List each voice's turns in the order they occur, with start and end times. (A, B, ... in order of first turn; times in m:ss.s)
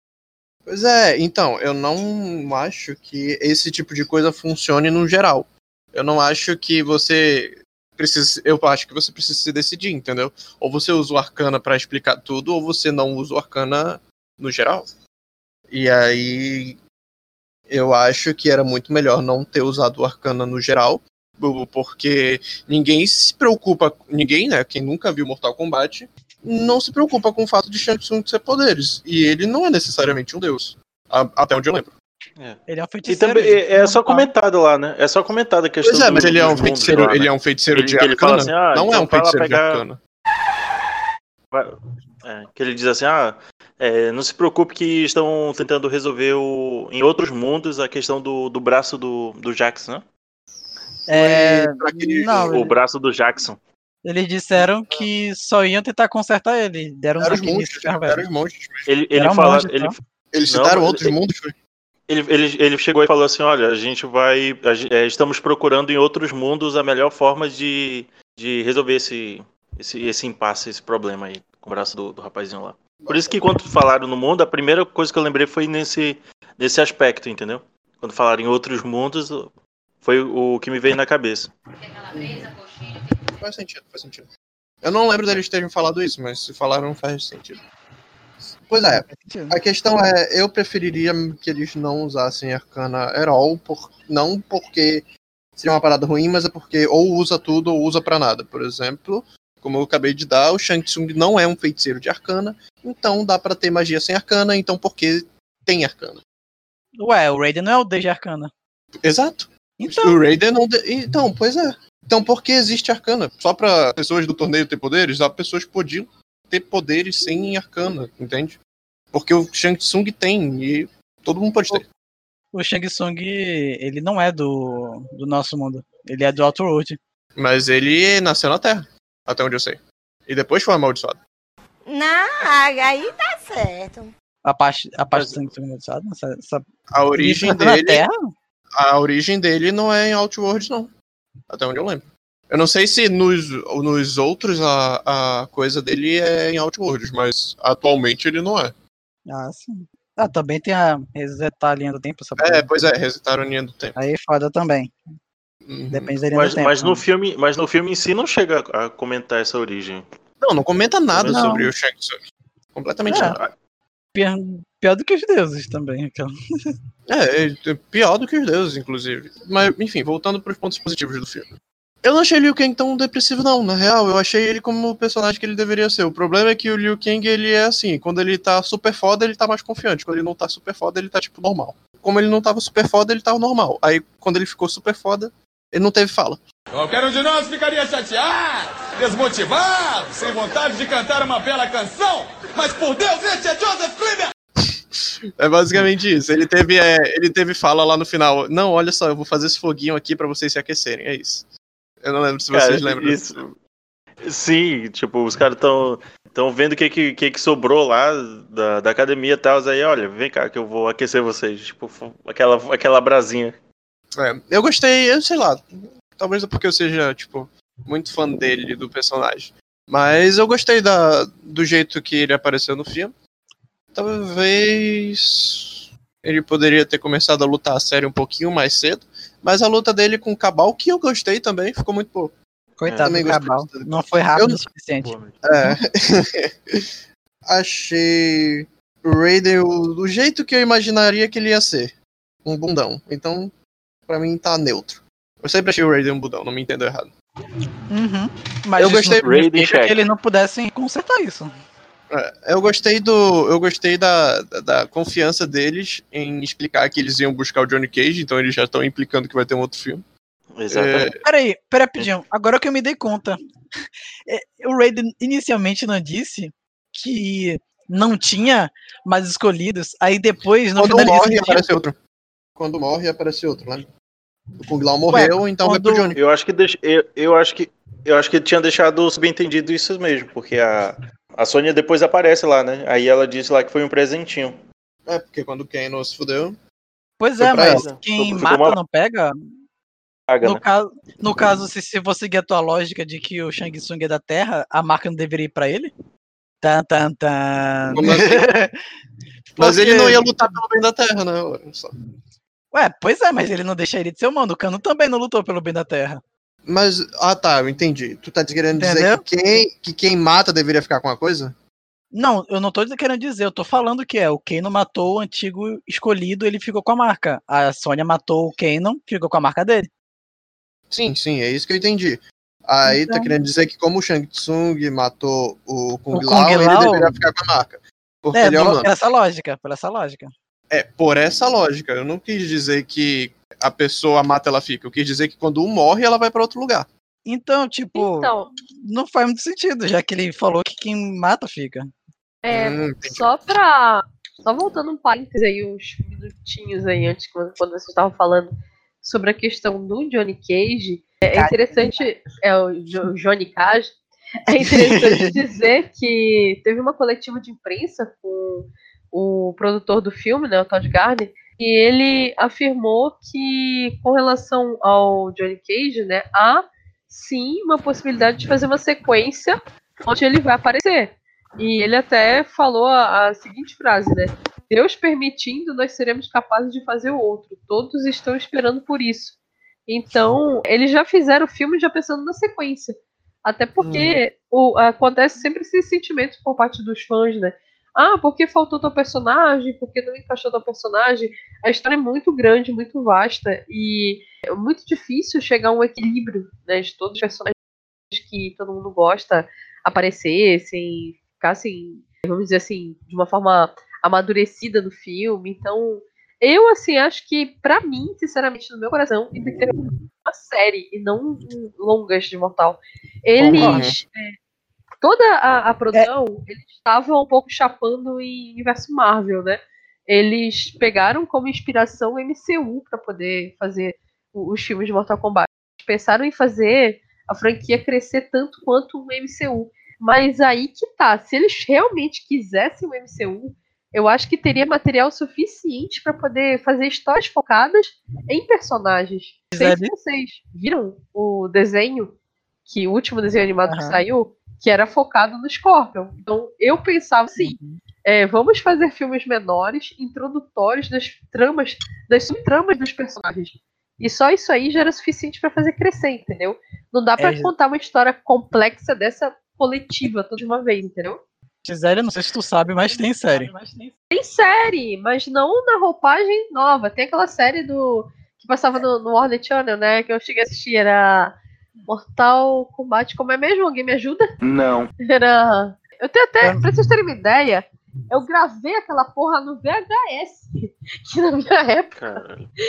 0:00.7-0:14.9 A
0:15.7-0:16.8 A
0:17.7-0:31.9 A
0:32.4-0:39.8 B
0:32.7-0:34.3 C
0:35.8-0:40.0 A
0:42.2-0:50.0 B
0:51.1-0:52.7 C
0:51.1-0:52.7 A
0:52.3-0:53.6 B
0:54.0-0:58.2 C
0:54.6-0:55.0 A
0:57.2-0:58.9 A
0:58.9-1:01.2 B
0:59.2-1:00.0 C
1:00.3-1:01.6 A
1:02.1-1:21.5 B
1:13.0-1:13.4 A
1:22.1-1:22.6 A
1:23.3-1:24.3 A
1:24.8-1:27.6 A
1:28.7-1:35.0 A
1:29.1-1:29.6 C
1:35.6-1:46.2 A
1:47.0-1:48.5 C
1:49.0-1:58.6 A
1:49.8-1:50.2 C
1:59.1-2:01.9 A
2:02.5-2:07.0 C
2:07.4-2:11.2 A
2:11.9-2:14.1 D
2:14.4-2:18.1 C
2:15.1-2:15.5 B
2:16.9-2:18.0 A
2:18.8-2:20.9 A
2:21.5-2:28.7 A
2:29.3-2:32.7 C
2:32.4-2:34.0 A
2:34.0-2:34.9 C
2:35.7-2:36.2 A
2:35.9-2:37.0 C
2:36.4-2:40.1 B
2:40.4-2:42.2 A
2:41.1-2:41.6 B
2:41.3-2:41.7 C
2:42.7-2:43.4 A
2:43.1-2:43.4 C
2:43.1-2:43.5 B
2:44.1-2:46.3 C
2:47.1-2:51.5 A
2:52.0-3:06.4 A
3:06.7-3:14.3 E
3:15.4-3:21.5 A
3:22.0-3:23.4 A
3:22.5-3:23.5 B
3:24.2-3:33.6 B
3:34.2-3:43.1 A
3:43.9-3:52.3 A
3:52.8-3:55.8 C
3:52.8-3:53.4 B
3:53.0-3:54.6 A
3:55.0-3:55.4 B
3:55.4-3:56.9 A
3:57.5-4:01.9 A
4:02.4-4:03.5 A
4:04.1-4:07.1 A
4:07.9-4:11.5 C
4:08.8-4:09.2 A
4:08.8-4:10.0 B
4:12.1-4:20.0 A
4:20.6-4:21.1 B
4:20.7-4:21.2 A
4:21.2-4:23.4 C
4:24.3-4:31.6 C
4:30.8-4:32.0 A
4:32.6-4:33.9 A
4:34.6-4:36.2 A
4:35.1-4:36.1 C
4:36.2-4:44.6 B
4:45.1-4:46.6 A
4:47.2-4:49.5 C
4:47.4-4:47.9 A
4:47.7-4:48.8 B
4:50.3-4:50.6 B
4:50.4-4:55.9 C
4:56.6-4:58.7 C
4:57.9-4:58.5 A
4:59.5-5:00.4 C
4:59.6-5:01.9 A
5:02.7-5:06.2 C
5:06.6-5:11.6 A
5:08.8-5:09.2 C
5:12.1-5:19.9 C
5:20.9-5:28.9 A
5:22.8-5:23.3 C
5:26.1-5:27.1 C
5:28.4-5:30.3 C
5:30.7-5:36.9 A
5:37.2-5:41.9 C
5:38.0-5:38.5 F
5:42.4-5:53.9 F
5:42.5-5:43.3 A
5:54.5-6:19.4 F
5:54.6-5:55.4 C
6:19.9-6:37.5 F
6:23.8-6:24.2 A
6:38.1-6:49.7 F
6:50.2-6:54.3 F
6:53.4-6:53.9 C
6:53.5-6:54.0 A
6:55.0-7:22.1 F
7:19.5-7:19.9 C
7:22.7-7:41.2 F
7:23.7-7:24.0 C
7:27.4-7:27.8 C
7:37.2-7:37.5 C
7:41.6-7:43.9 C
7:44.1-7:54.3 F
7:55.1-8:02.0 F
8:02.0-8:02.5 B